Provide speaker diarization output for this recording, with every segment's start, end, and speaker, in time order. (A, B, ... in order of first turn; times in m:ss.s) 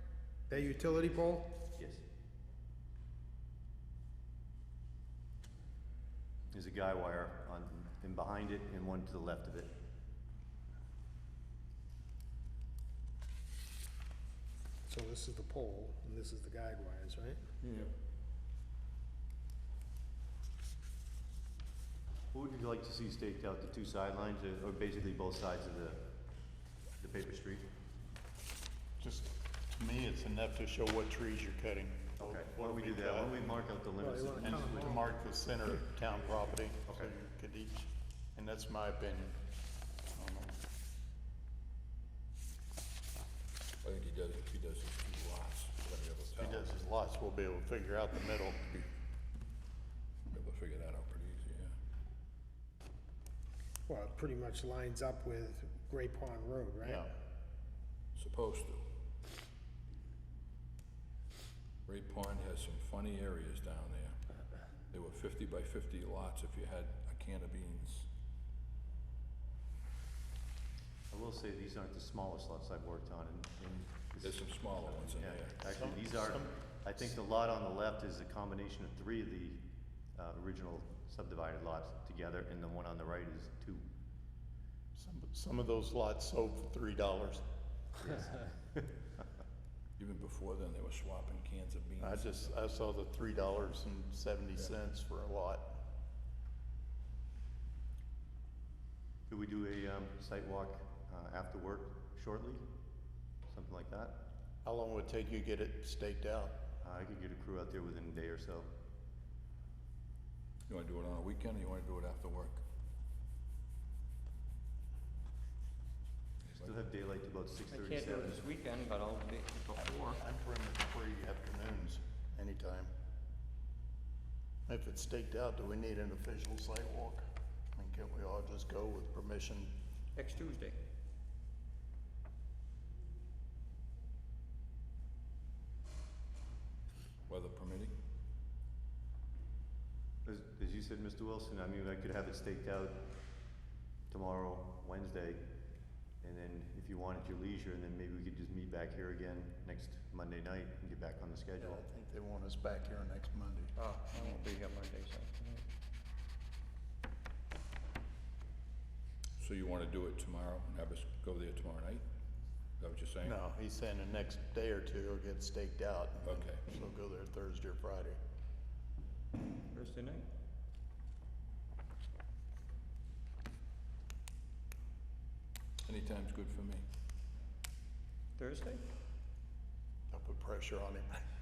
0:00.5-0:01.5 A
0:01.8-0:02.0 B
0:06.5-0:09.7 B
0:14.9-0:17.4 A
0:22.3-0:26.1 B
0:27.0-0:27.7 B
0:29.0-0:33.4 C
0:32.2-0:35.0 B
0:34.0-0:35.1 A
0:34.4-0:39.4 C
0:36.9-0:37.1 B
0:40.1-0:40.6 C
0:43.8-0:46.7 D
0:46.4-0:48.7 C
0:50.3-0:51.8 D
0:53.9-0:57.1 A
0:56.8-0:57.1 C
0:58.2-0:58.9 D
1:01.9-1:04.2 D
1:04.9-1:08.1 D
1:11.1-1:23.9 B
1:14.2-1:15.6 D
1:15.6-1:17.1 C
1:25.0-1:27.4 C
1:28.1-1:28.6 B
1:30.0-1:32.6 D
1:32.0-1:35.8 C
1:39.3-1:42.7 B
1:43.5-1:44.2 B
1:44.6-1:46.6 C
1:46.8-1:48.7 B
1:50.7-1:52.6 D
1:56.6-1:58.6 B
1:57.7-2:00.2 E
1:59.8-2:02.9 C
2:04.7-2:09.8 C
2:10.2-2:10.8 E
2:17.3-2:18.0 D
2:20.2-2:23.0 B
2:24.1-2:25.5 B
2:26.2-2:31.8 B
2:31.6-2:34.5 C
2:33.8-2:35.6 E
2:39.4-2:42.1 D
2:42.8-2:43.4 D
2:43.2-2:48.2 C
2:46.2-2:46.6 D
2:49.7-2:50.3 E
2:55.8-2:56.9 D
2:58.4-2:58.8 E
3:00.1-3:01.2 C